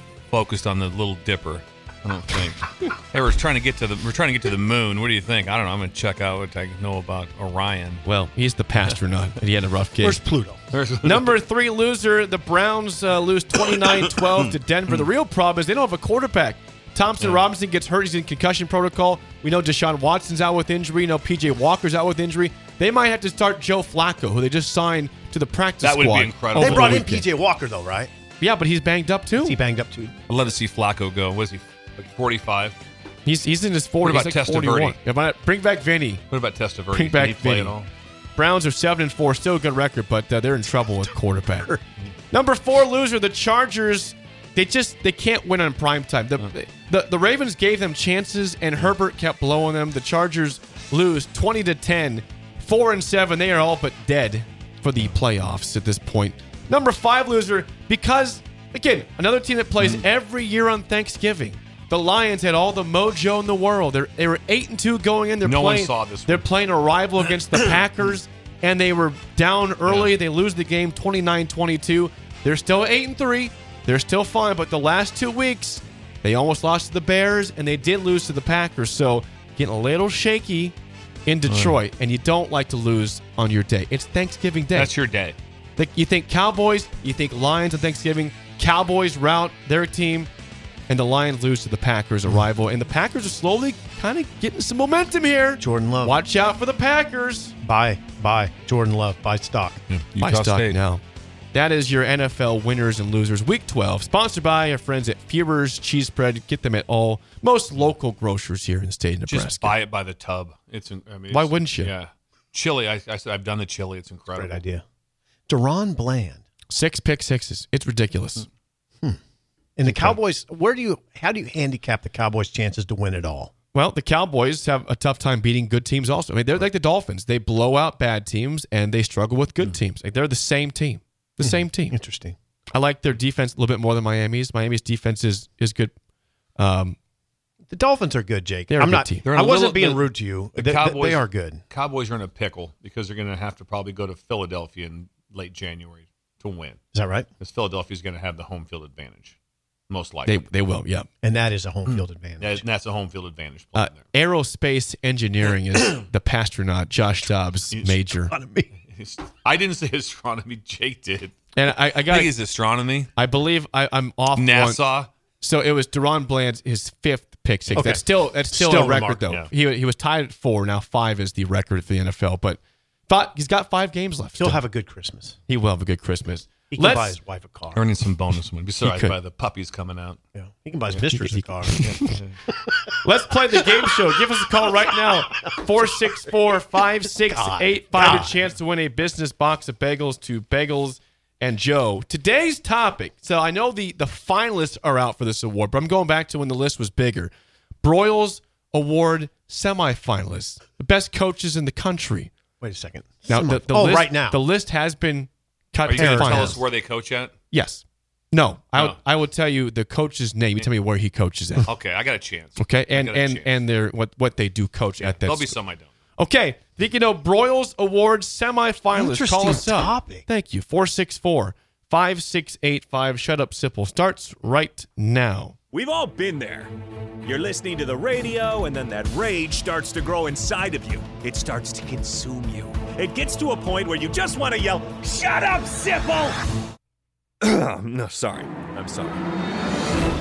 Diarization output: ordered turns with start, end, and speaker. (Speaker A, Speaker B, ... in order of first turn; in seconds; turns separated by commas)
Speaker A: 0.3-8.0, Speaker B: 8.1-10.2, Speaker C: 10.0-10.6, Speaker A: 10.7-11.4, Speaker B: 11.0-27.3, Speaker A: 13.6-15.0, Speaker A: 17.2-17.5, Speaker A: 25.8-27.1, Speaker C: 26.5-28.1, Speaker B: 28.4-29.6, Speaker C: 29.4-30.1, Speaker A: 30.3-32.8, Speaker B: 33.2-36.2, Speaker A: 34.0-35.0, Speaker A: 36.3-37.9, Speaker B: 36.9-37.8, Speaker B: 38.4-41.8, Speaker B: 42.3-80.8, Speaker A: 59.8-60.0, Speaker A: 65.4-66.5, Speaker A: 67.5-67.8, Speaker A: 69.8-70.1, Speaker B: 81.2-84.9, Speaker A: 81.5-81.8, Speaker A: 84.7-85.4, Speaker B: 85.8-90.3, Speaker B: 90.9-97.5, Speaker C: 95.6-96.2, Speaker C: 97.6-99.8, Speaker A: 99.9-100.8, Speaker B: 100.2-109.8, Speaker A: 109.3-114.6, Speaker B: 111.3-111.9, Speaker C: 114.3-114.8, Speaker C: 115.5-116.4, Speaker B: 116.7-118.5, Speaker C: 119.8-123.5, Speaker B: 119.9-120.2, Speaker B: 123.7-131.9, Speaker C: 131.4-132.4, Speaker B: 132.7-135.9, Speaker B: 136.6-137.0, Speaker C: 137.7-141.6, Speaker B: 138.7-139.2, Speaker A: 139.2-146.8, Speaker C: 146.9-147.3, Speaker A: 147.4-149.4, Speaker A: 149.9-150.5, Speaker B: 150.2-151.1, Speaker C: 151.2-152.6, Speaker A: 151.9-154.0, Speaker B: 153.8-158.3, Speaker A: 157.7-158.1, Speaker C: 158.3-158.7, Speaker A: 158.9-161.3, Speaker B: 161.5-162.3, Speaker A: 162.0-163.1, Speaker B: 163.2-164.8, Speaker A: 164.3-165.1, Speaker B: 165.4-174.6, Speaker A: 167.7-168.0, Speaker C: 167.8-169.3, Speaker C: 174.4-175.4, Speaker B: 175.5-177.2, Speaker C: 176.7-177.8, Speaker A: 177.8-180.2, Speaker B: 178.8-179.2, Speaker C: 180.3-183.0, Speaker B: 180.9-182.1, Speaker A: 181.8-182.4, Speaker B: 183.1-202.3, Speaker C: 183.5-185.1, Speaker C: 187.1-188.3, Speaker C: 202.6-204.4, Speaker B: 203.3-206.6, Speaker A: 205.9-207.3, Speaker C: 205.9-206.6, Speaker B: 207.5-211.7, Speaker A: 211.6-213.6, Speaker B: 212.6-215.6, Speaker A: 215.0-215.9, Speaker B: 216.2-225.6, Speaker C: 218.9-220.3, Speaker D: 225.7-226.7, Speaker D: 227.2-236.4, Speaker D: 237.4-239.2